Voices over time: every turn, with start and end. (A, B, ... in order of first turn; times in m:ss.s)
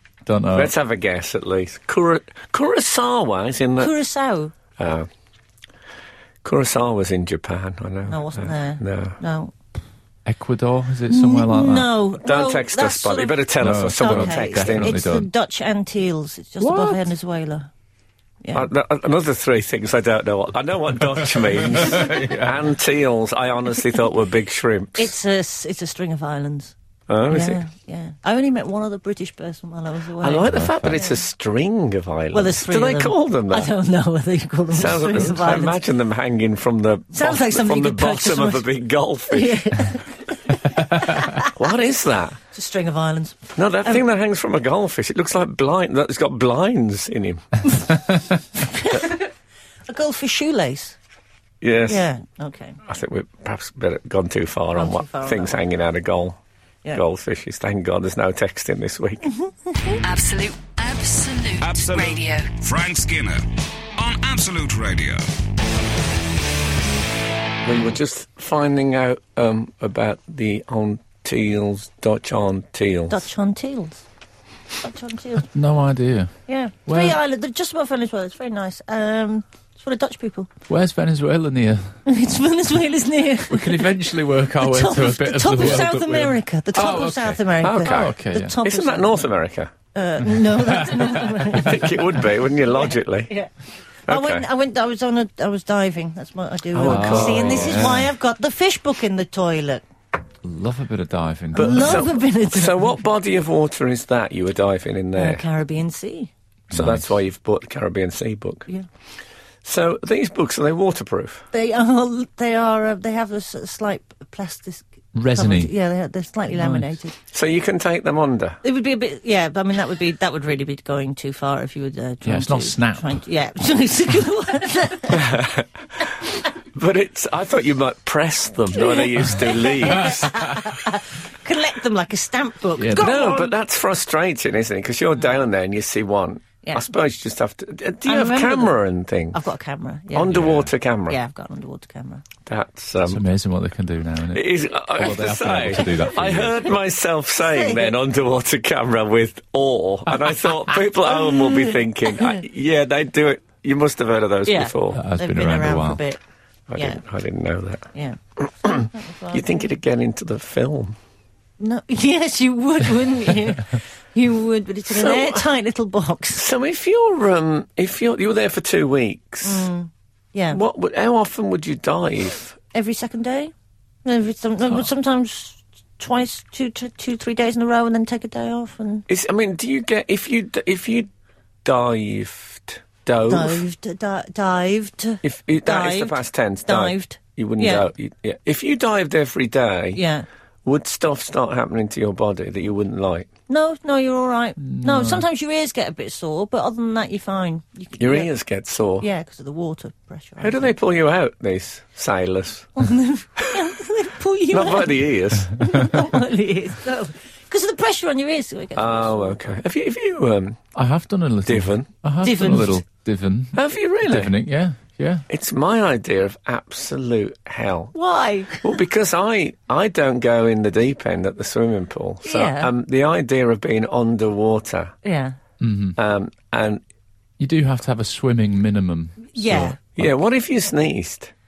0:00.2-0:00.7 A
0:00.5-0:03.9 B
0:03.8-0:04.5 C
0:04.8-0:05.1 B
0:06.4-0:09.2 B
0:08.1-0:09.5 C
0:10.2-0:11.9 A
0:11.1-0:17.7 C
0:12.2-0:15.0 B
0:13.6-0:15.3 A
0:16.6-0:17.1 A
0:18.4-0:18.7 C
0:18.5-0:25.1 B
0:21.6-0:22.6 A
0:25.0-0:26.7 C
0:27.1-0:27.6 B
0:27.3-0:31.1 C
0:30.2-0:33.7 B
0:30.5-0:31.0 A
0:32.3-0:35.8 C
0:34.7-0:39.8 B
0:37.1-0:38.6 C
0:39.3-0:41.5 C
0:41.4-0:42.4 B
0:42.5-0:44.0 C
0:43.6-0:47.6 B
0:48.6-0:49.2 C
0:49.9-0:51.0 C
0:51.6-0:52.0 B
0:51.9-0:52.8 C
0:52.8-0:56.4 B
0:54.7-0:55.6 C
0:56.9-0:59.3 B
0:59.4-1:00.0 C
1:00.0-1:02.5 D
1:01.6-1:03.4 E
1:04.0-1:05.3 E
1:07.6-1:13.2 B
1:13.1-1:14.0 C
1:14.8-1:15.5 C
1:15.5-1:16.3 A
1:16.5-1:20.5 C
1:16.9-1:17.2 A
1:20.7-1:22.0 A
1:22.0-1:23.9 C
1:23.5-1:28.6 A
1:24.6-1:29.3 C
1:27.6-1:29.7 B
1:29.9-1:31.9 C
1:30.4-1:31.8 A
1:31.5-1:33.3 B
1:32.9-1:33.5 C
1:34.1-1:34.5 B
1:34.1-1:39.8 C
1:36.7-1:38.0 B
1:36.7-1:38.1 A
1:40.4-1:42.1 A
1:41.5-1:42.9 C
1:41.6-1:45.4 B
1:45.2-1:46.3 C
1:46.7-1:48.7 B
1:46.7-1:47.0 A
1:49.6-1:51.4 B
1:51.5-1:57.2 C
1:55.1-1:55.7 A
1:56.5-1:56.9 A
1:57.3-1:58.6 B
1:58.6-2:05.3 C
2:02.2-2:03.2 A
2:05.1-2:05.7 B
2:06.7-2:10.6 B
2:08.7-2:13.5 C
2:12.8-2:13.2 A
2:12.9-2:19.4 B
2:18.0-2:18.8 C
2:19.3-2:20.4 C
2:20.1-2:21.2 B
2:20.3-2:20.7 A
2:21.1-2:22.2 C
2:22.4-2:23.2 B
2:23.0-2:26.6 A
2:24.3-2:35.0 B
2:27.4-2:27.9 C
2:31.0-2:32.4 C
2:34.4-2:36.2 C
2:34.9-2:36.0 A
2:36.7-2:41.0 B
2:36.8-2:37.0 C
2:37.9-2:39.7 C
2:41.6-2:46.4 C
2:44.8-2:45.5 B
2:46.4-2:49.7 B
2:49.4-2:50.6 C
2:50.5-2:52.6 B
2:52.7-2:53.5 C
2:54.0-2:59.0 C
2:59.1-3:01.1 B
3:01.6-3:03.6 B
3:03.2-3:07.8 C
3:05.2-3:10.0 B
3:09.9-3:10.2 C
3:10.6-3:13.3 B
3:13.5-3:18.3 C
3:14.6-3:15.2 A
3:18.0-3:19.1 B
3:19.0-3:20.7 C
3:20.4-3:22.7 B
3:22.8-3:29.5 C
3:24.5-3:26.0 B
3:28.8-3:30.6 B
3:30.7-3:35.2 A
3:31.4-3:31.9 B
3:32.2-3:32.8 C
3:33.5-3:34.3 B
3:35.3-3:37.9 B
3:37.9-3:38.7 C
3:38.6-3:44.9 B
3:42.2-3:42.7 C
3:45.0-3:45.4 C
3:45.6-3:46.0 A
3:46.0-3:46.8 B
3:47.4-3:50.1 A
3:49.3-3:49.8 C
3:49.5-3:51.3 B